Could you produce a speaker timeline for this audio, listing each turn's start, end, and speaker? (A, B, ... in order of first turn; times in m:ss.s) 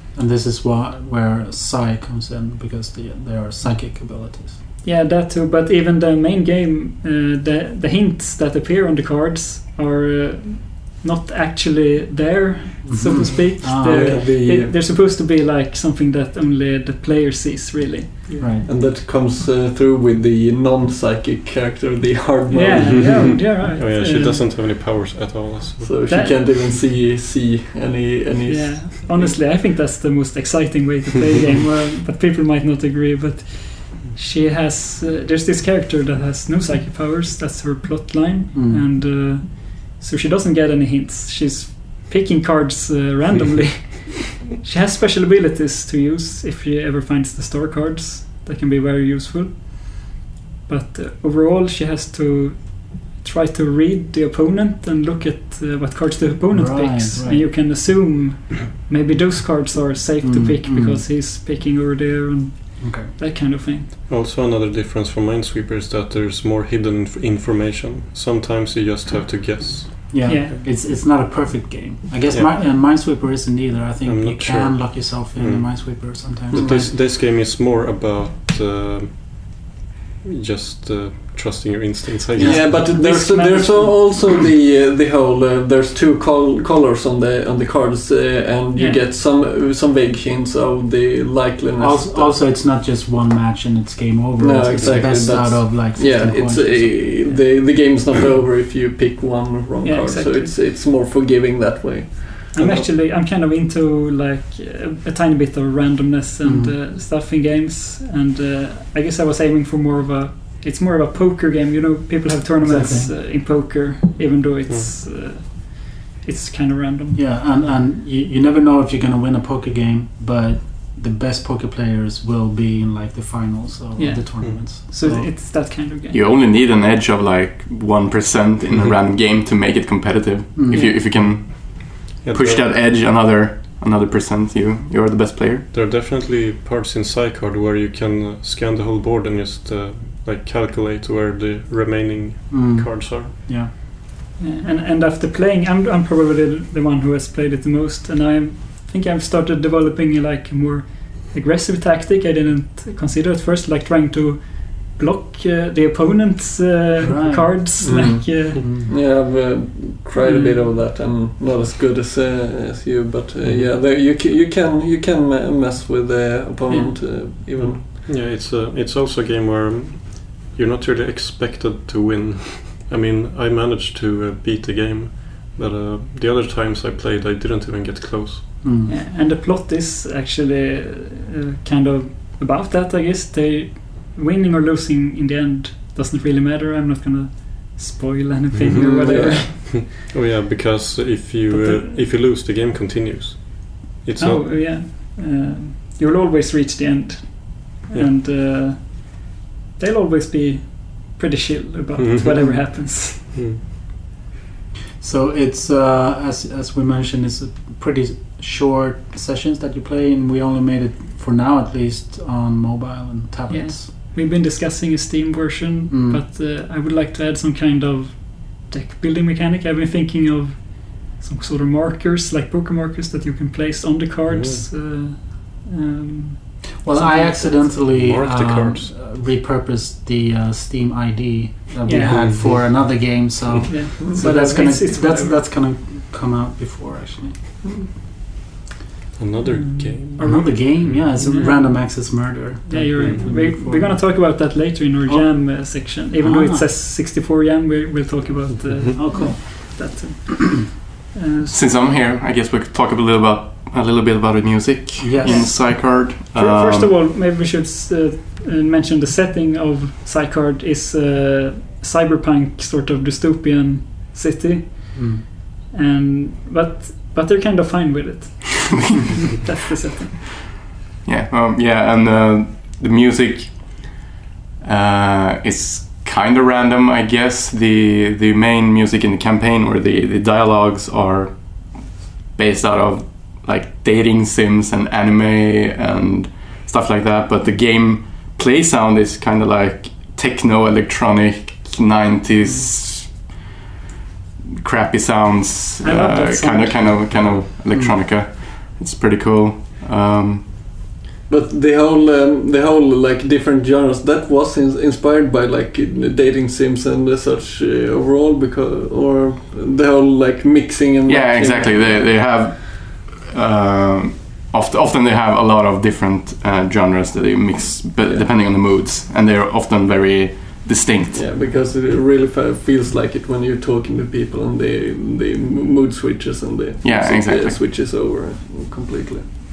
0:00.1-0:04.6 A
0:04.8-0:18.5 B
0:12.9-0:14.2 A
0:13.8-0:14.8 C
0:18.3-0:23.4 C
0:18.4-0:18.7 A
0:22.5-0:24.5 B
0:22.9-0:26.1 D
0:25.8-0:29.4 C
0:26.1-0:26.4 B
0:28.5-1:03.9 B
0:38.5-0:38.8 A
0:56.5-0:57.5 A
1:00.2-1:01.0 A
1:02.8-1:03.1 A
1:04.1-1:10.6 D
1:10.1-1:16.9 A
1:10.3-1:10.6 B
1:12.3-1:12.6 D
1:14.0-1:19.6 D
1:16.5-1:16.9 C
1:20.2-1:22.8 D
1:22.4-1:32.4 C
1:22.4-1:24.2 B
1:28.8-1:29.0 B
1:31.8-1:37.1 A
1:34.4-1:42.5 C
1:34.8-1:35.1 D
1:39.8-1:40.5 B
1:42.6-1:57.3 B
1:42.6-1:42.9 D
1:46.4-1:46.8 A
1:52.6-1:53.2 A
1:57.1-2:05.3 A
2:04.0-2:06.2 B
2:06.1-2:15.7 E
2:10.6-2:11.0 A
2:10.7-2:11.0 B
2:11.0-2:11.3 D
2:12.1-2:12.8 D
2:15.7-2:23.3 D
2:22.5-2:23.7 A
2:24.4-2:38.6 B
2:37.0-2:38.9 A
2:37.8-2:47.9 C
2:40.2-2:40.7 B
2:43.4-2:43.7 D
2:46.7-2:47.2 B
2:47.6-2:58.6 D
2:58.6-2:58.9 A
2:58.9-3:09.7 B
3:08.6-3:14.7 D
3:08.8-3:09.7 C
3:11.5-3:12.1 B
3:14.2-3:23.2 B
3:22.0-3:23.6 D
3:25.0-3:33.9 A
3:33.5-3:48.0 B
3:35.9-3:36.2 A
3:44.3-3:44.7 D
3:46.8-3:57.6 A
3:47.8-3:48.9 D
3:51.8-3:52.5 B
3:52.0-3:52.9 D
3:53.7-3:55.5 B
3:57.6-3:57.9 C
3:59.2-4:01.1 D
3:59.5-4:11.6 B
4:00.2-4:06.7 A
4:03.0-4:03.3 D
4:08.5-4:09.0 D
4:09.0-4:09.8 A
4:11.5-4:16.9 E
4:15.0-4:15.5 A
4:15.2-4:30.3 B
4:24.9-4:25.2 A
4:31.0-4:34.0 E
4:34.6-4:53.4 E
4:54.6-5:00.7 E
4:55.8-4:57.0 B
4:57.7-4:58.0 A
5:01.3-5:12.1 C
5:11.1-5:21.3 E
5:18.0-5:18.3 C
5:21.1-5:29.3 C
5:26.8-5:27.6 E